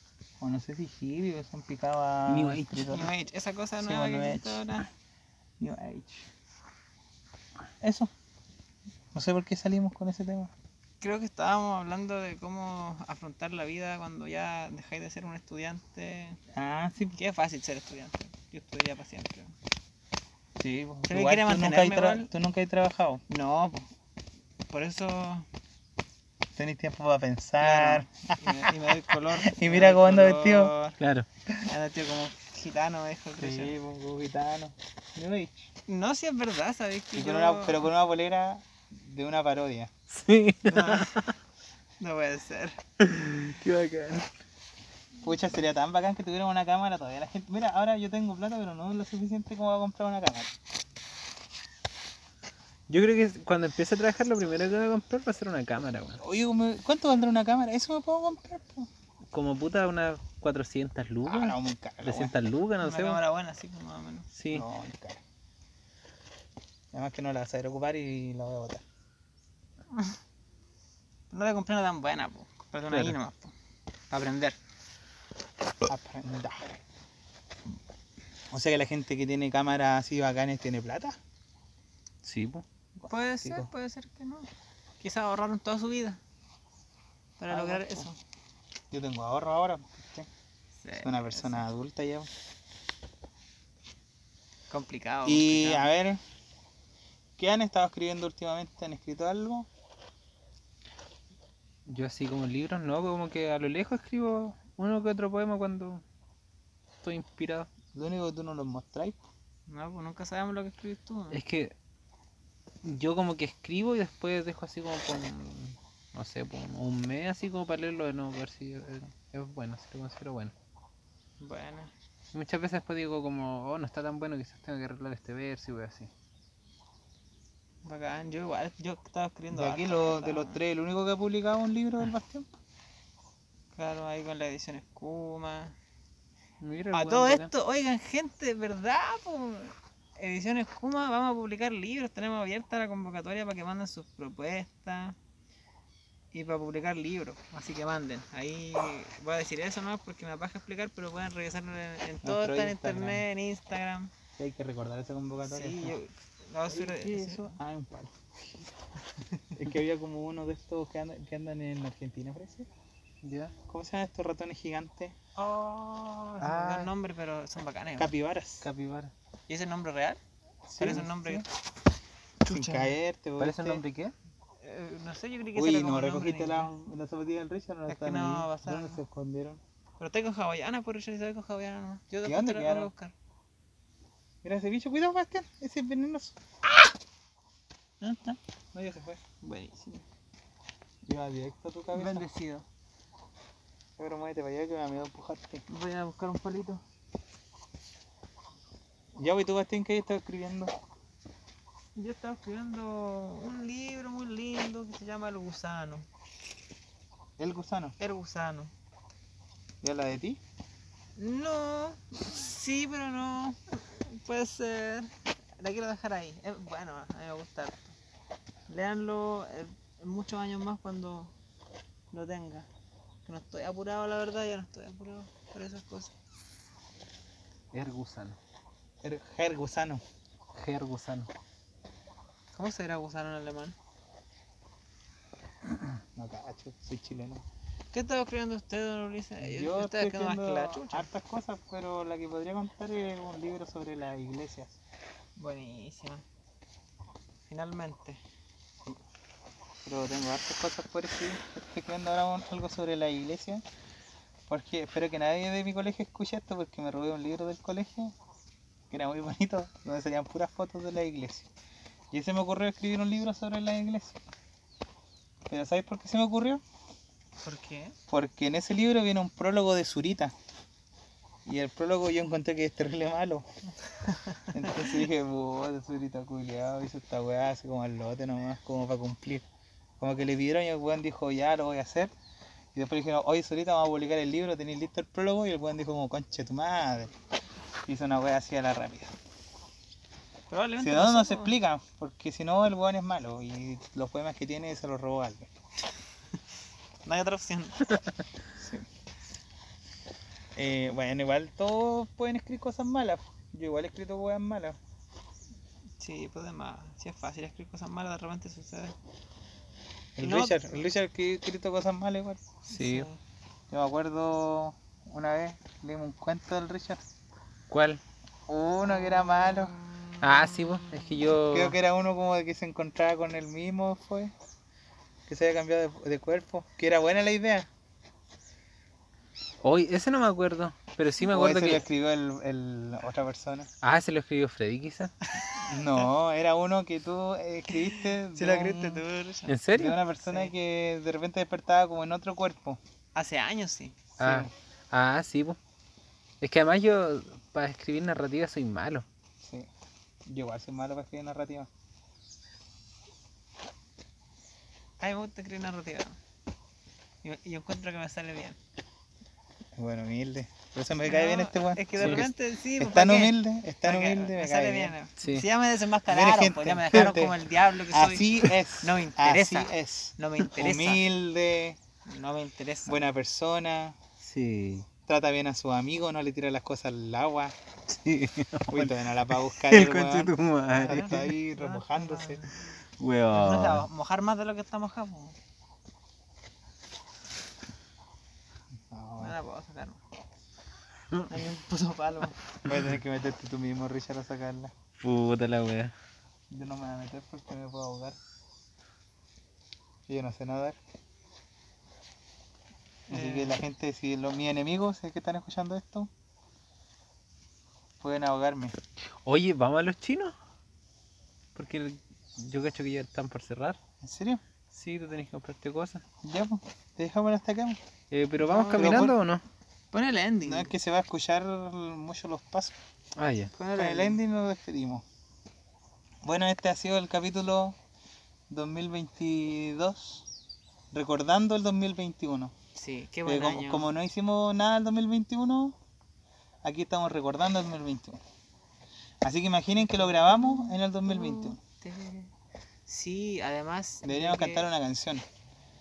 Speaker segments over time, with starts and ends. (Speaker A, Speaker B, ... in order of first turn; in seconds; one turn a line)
Speaker A: 0.4-3.1
Speaker B: 2.3-3.0
Speaker C: 2.9-4.9
Speaker A: 3.8-4.7
Speaker A: 5.6-6.3
Speaker A: 7.8-8.1
Speaker A: 9.1-10.5
Speaker C: 11.0-16.4
Speaker A: 16.5-17.2
Speaker C: 17.2-19.5
Speaker A: 20.6-23.2
Speaker C: 21.1-22.3
Speaker C: 23.3-23.9
Speaker C: 24.7-25.5
Speaker A: 26.6-30.7
Speaker C: 27.6-31.0
Speaker B: 31.0-31.3
Speaker C: 31.7-33.7
Speaker A: 33.4-35.7
Speaker C: 35.9-37.9
Speaker A: 37.1-39.9
Speaker B: 40.1-41.3
Speaker C: 40.7-41.3
Speaker C: 42.0-42.8
Speaker B: 43.0-44.3
Speaker A: 45.2-50.5
Speaker B: 52.9-56.2
Speaker A: 56.2-58.9
Speaker B: 59.3-63.2
Speaker A: 61.3-62.3
Speaker C: 62.8-64.3
Speaker B: 64.3-64.7
Speaker A: 64.5-65.2
Speaker A: 66.9-68.8
Speaker C: 71.3-73.5
Speaker C: 74.1-74.6
Speaker A: 75.9-76.8
Speaker A: 78.5-81.2
Speaker B: 82.2-82.7
Speaker A: 83.0-83.7
Speaker C: 83.1-84.5
Speaker C: 85.0-86.2
Speaker C: 87.4-88.2
Speaker A: 87.5-88.1
Speaker A: 88.9-90.3
Speaker C: 90.8-91.6
Speaker A: 91.0-92.3
Speaker C: 94.7-95.9
Speaker A: 95.3-96.2
Speaker A: 97.4-99.7
Speaker B: 101.9-106.0
Speaker B: 107.0-107.7
Speaker A: 107.9-109.2
Speaker C: 109.7-111.4
Speaker B: 111.3-111.7
Speaker B: 112.8-120.5
Speaker C: 121.4-121.9
Speaker B: 122.3-126.1
Speaker C: 127.8-130.6
Speaker A: 129.5-132.5
Speaker C: 133.8-135.8
Speaker B: 136.6-137.5
Speaker C: 136.9-145.2
Speaker C: 146.3-154.1
Speaker A: 152.2-153.2
Speaker A: 154.4-156.0
Speaker C: 155.4-157.6
Speaker A: 156.7-158.6
Speaker A: 159.5-162.7
Speaker B: 163.2-163.5
Speaker A: 163.7-165.1
Speaker C: 165.4-168.1
Speaker B: 166.4-166.9
Speaker A: 168.0-168.7
Speaker B: 168.6-169.1
Speaker C: 169.5-170.2
Speaker A: 170.7-171.4
Speaker C: 170.8-171.5
Speaker C: 172.4-173.0
Speaker A: 172.5-173.8
Speaker B: 173.4-174.2
Speaker C: 174.6-176.7
Speaker A: 175.6-179.6
Speaker C: 177.9-179.0
Speaker C: 180.0-183.1
Speaker A: 182.2-182.9
Speaker A: 184.4-186.4
Speaker C: 188.0-188.4
Speaker A: 188.7-189.2
Speaker C: 189.4-190.1
Speaker A: 191.1-192.2
Speaker C: 191.9-192.7
Speaker A: 194.0-195.7
Speaker C: 195.7-196.8
Speaker A: 199.2-200.7
Speaker C: 202.0-206.1
Speaker A: 207.4-208.0
Speaker C: 208.0-208.7
Speaker A: 209.8-210.4
Speaker C: 211.2-217.9
Speaker C: 218.7-221.3
Speaker C: 222.1-222.7
Speaker C: 223.3-226.1
Speaker B: 227.7-228.4
Speaker A: 229.0-230.0
Speaker B: 230.5-231.3
Speaker C: 232.5-233.8
Speaker A: 236.2-237.4
Speaker C: 237.9-241.1
Speaker A: 239.4-244.8
Speaker C: 245.4-246.2
Speaker C: 247.5-248.2
Speaker A: 249.8-253.6
Speaker A: 254.5-258.1
Speaker A: 258.9-261.5
Speaker A: 262.1-264.2
Speaker A: 265.5-266.6
Speaker C: 267.4-267.9
Speaker A: 268.1-270.3
Speaker A: 271.5-273.4
Speaker C: 274.1-274.8
Speaker A: 274.5-279.4
Speaker A: 280.0-282.1
Speaker A: 282.7-287.1
Speaker A: 287.9-289.1
Speaker C: 290.5-291.5
Speaker A: 290.8-295.5
Speaker C: 297.1-298.0
Speaker A: 298.6-298.9
Speaker A: 300.6-304.8
Speaker C: 306.0-308.9
Speaker A: 310.2-312.4
Speaker C: 310.2-310.9
Speaker C: 312.7-313.2
Speaker B: 312.8-313.1
Speaker A: 313.7-317.0
Speaker B: 317.7-318.0
Speaker A: 318.5-319.8
Speaker C: 318.8-321.0
Speaker B: 320.2-321.8
Speaker A: 321.4-324.3
Speaker A: 325.3-327.7
Speaker B: 329.6-331.9
Speaker A: 331.2-333.7
Speaker B: 333.8-335.1
Speaker C: 335.4-335.8
Speaker A: 335.7-339.0
Speaker C: 337.7-339.6
Speaker B: 339.5-340.0
Speaker A: 339.7-342.8
Speaker C: 340.2-340.5
Speaker C: 343.1-344.1
Speaker B: 344.2-345.6
Speaker A: 344.2-344.5
Speaker B: 346.4-349.1
Speaker A: 349.4-349.7
Speaker A: 350.3-351.7
Speaker C: 355.0-356.2
Speaker C: 357.2-358.6
Speaker A: 359.8-364.9
Speaker C: 361.0-368.3
Speaker B: 362.0-362.2
Speaker B: 365.2-365.5
Speaker A: 366.1-367.4
Speaker A: 367.9-371.8
Speaker C: 368.8-371.0
Speaker C: 372.1-373.1
Speaker A: 372.9-373.9
Speaker B: 374.2-374.9
Speaker A: 375.1-377.5
Speaker B: 377.9-381.3
Speaker A: 378.7-380.4
Speaker C: 380.7-382.6
Speaker A: 380.9-382.4
Speaker B: 383.0-383.9
Speaker C: 383.3-385.4
Speaker A: 388.9-389.3
Speaker C: 389.2-390.0
Speaker C: 391.3-392.4
Speaker A: 392.6-394.7
Speaker B: 395.0-395.9
Speaker A: 396.5-398.2
Speaker A: 400.1-400.8
Speaker C: 403.1-403.6
Speaker A: 403.1-406.1
Speaker A: 408.0-408.8
Speaker B: 409.2-410.4
Speaker B: 411.6-413.8
Speaker A: 414.0-414.4
Speaker B: 414.7-416.0
Speaker A: 416.2-417.8
Speaker B: 418.1-419.4
Speaker C: 418.4-419.1
Speaker A: 418.7-419.2
Speaker C: 419.9-420.7
Speaker A: 420.4-422.8
Speaker B: 423.2-423.5
Speaker C: 423.6-424.2
Speaker A: 423.8-425.0
Speaker A: 426.2-427.8
Speaker A: 428.5-430.3
Speaker A: 430.9-432.5
Speaker C: 432.8-433.9
Speaker A: 433.3-435.8
Speaker A: 436.6-438.2
Speaker A: 439.2-441.6
Speaker C: 439.8-442.3
Speaker C: 442.9-444.6
Speaker A: 444.0-445.2